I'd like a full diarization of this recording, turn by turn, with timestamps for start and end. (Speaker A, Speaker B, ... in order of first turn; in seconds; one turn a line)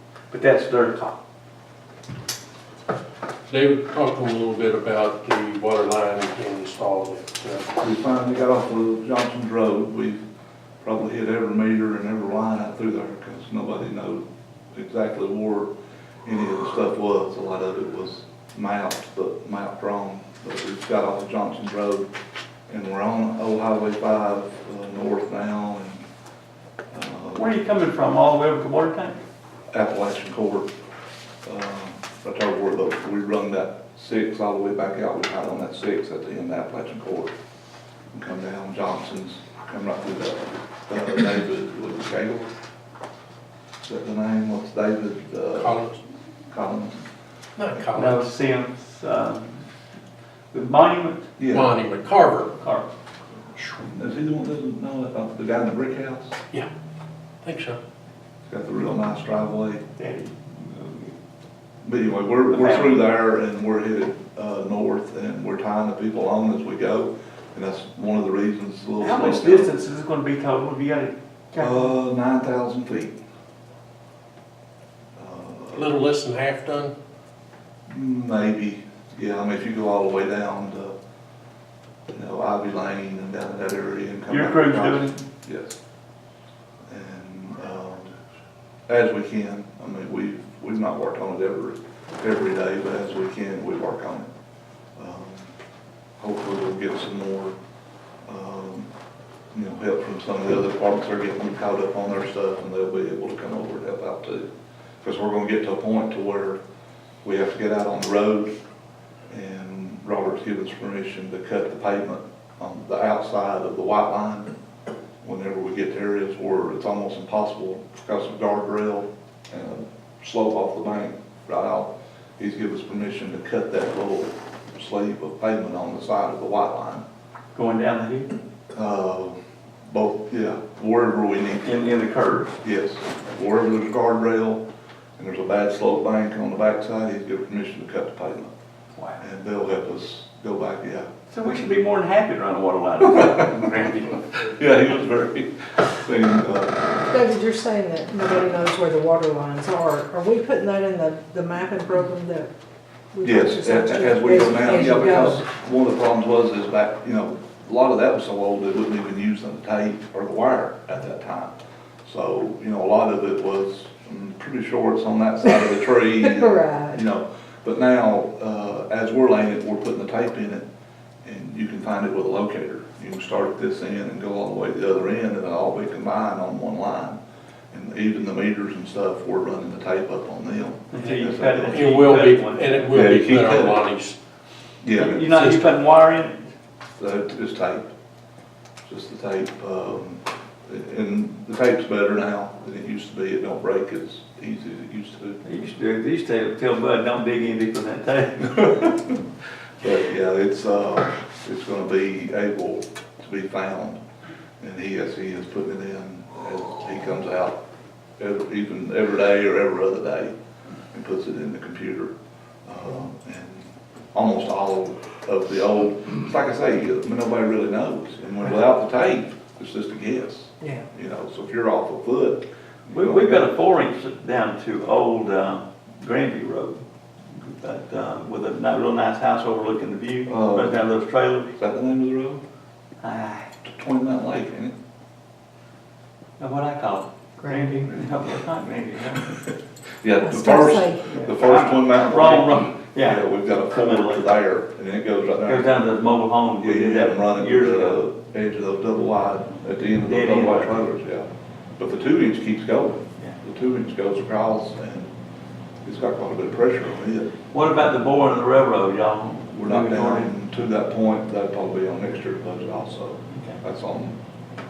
Speaker A: 0.3-1.2
Speaker B: 3.5-7.7
Speaker C: 7.8-10.2
Speaker C: 10.8-15.7
Speaker C: 16.2-22.1
Speaker C: 22.7-26.1
Speaker C: 26.9-27.5
Speaker A: 27.3-29.2
Speaker C: 29.7-30.7
Speaker C: 31.4-37.3
Speaker C: 38.1-42.5
Speaker C: 43.8-45.8
Speaker B: 45.5-46.0
Speaker C: 46.5-47.0
Speaker B: 47.5-48.3
Speaker A: 47.9-49.7
Speaker A: 50.5-51.3
Speaker C: 51.4-51.7
Speaker B: 51.5-52.5
Speaker A: 52.6-52.9
Speaker B: 53.5-53.8
Speaker C: 54.0-56.3
Speaker B: 57.4-57.8
Speaker C: 58.5-59.8
Speaker A: 60.0-61.1
Speaker C: 61.8-69.7
Speaker A: 62.5-63.1
Speaker A: 69.0-71.9
Speaker C: 71.6-73.2
Speaker C: 75.2-75.9
Speaker B: 75.7-76.9
Speaker C: 77.9-80.9
Speaker C: 82.1-85.8
Speaker A: 84.3-85.2
Speaker C: 86.9-88.1
Speaker C: 88.9-94.3
Speaker C: 95.0-95.5
Speaker C: 96.2-97.5
Speaker C: 98.2-98.9
Speaker C: 99.5-104.5
Speaker C: 105.0-106.6
Speaker C: 107.2-108.5
Speaker C: 109.3-114.5
Speaker C: 115.2-127.0
Speaker A: 127.5-128.3
Speaker C: 128.7-129.3
Speaker C: 129.9-131.7
Speaker A: 131.6-132.6
Speaker C: 132.6-134.6
Speaker C: 135.2-138.5
Speaker A: 138.9-139.2
Speaker C: 139.2-141.1
Speaker A: 141.3-144.2
Speaker C: 143.2-143.5
Speaker C: 144.5-146.8
Speaker D: 147.1-152.5
Speaker D: 153.1-155.4
Speaker C: 153.2-170.6
Speaker D: 166.2-167.0
Speaker C: 171.2-177.2
Speaker C: 177.7-181.9
Speaker A: 180.9-183.0
Speaker B: 181.0-184.2
Speaker C: 182.9-183.8
Speaker C: 184.8-185.5
Speaker A: 184.9-186.4
Speaker B: 185.3-185.6
Speaker C: 187.0-187.9
Speaker C: 188.8-195.4
Speaker A: 195.4-198.7
Speaker C: 198.4-199.2
Speaker C: 199.8-204.0
Speaker C: 204.6-207.6
Speaker C: 208.2-210.3
Speaker C: 210.9-212.1
Speaker C: 212.7-223.5
Speaker A: 222.9-226.8
Speaker A: 227.3-231.5
Speaker C: 230.3-230.8
Speaker C: 231.6-232.4
Speaker A: 233.0-233.5
Speaker C: 233.6-234.7
Speaker A: 236.4-239.3
Speaker D: 237.4-237.8
Speaker C: 240.0-245.8
Speaker D: 240.2-241.1
Speaker A: 241.1-244.2
Speaker A: 245.4-248.0
Speaker C: 246.6-251.3
Speaker A: 250.1-250.7
Speaker C: 251.8-255.1
Speaker C: 255.8-257.3
Speaker A: 257.5-260.3
Speaker C: 259.6-264.2
Speaker A: 263.3-263.6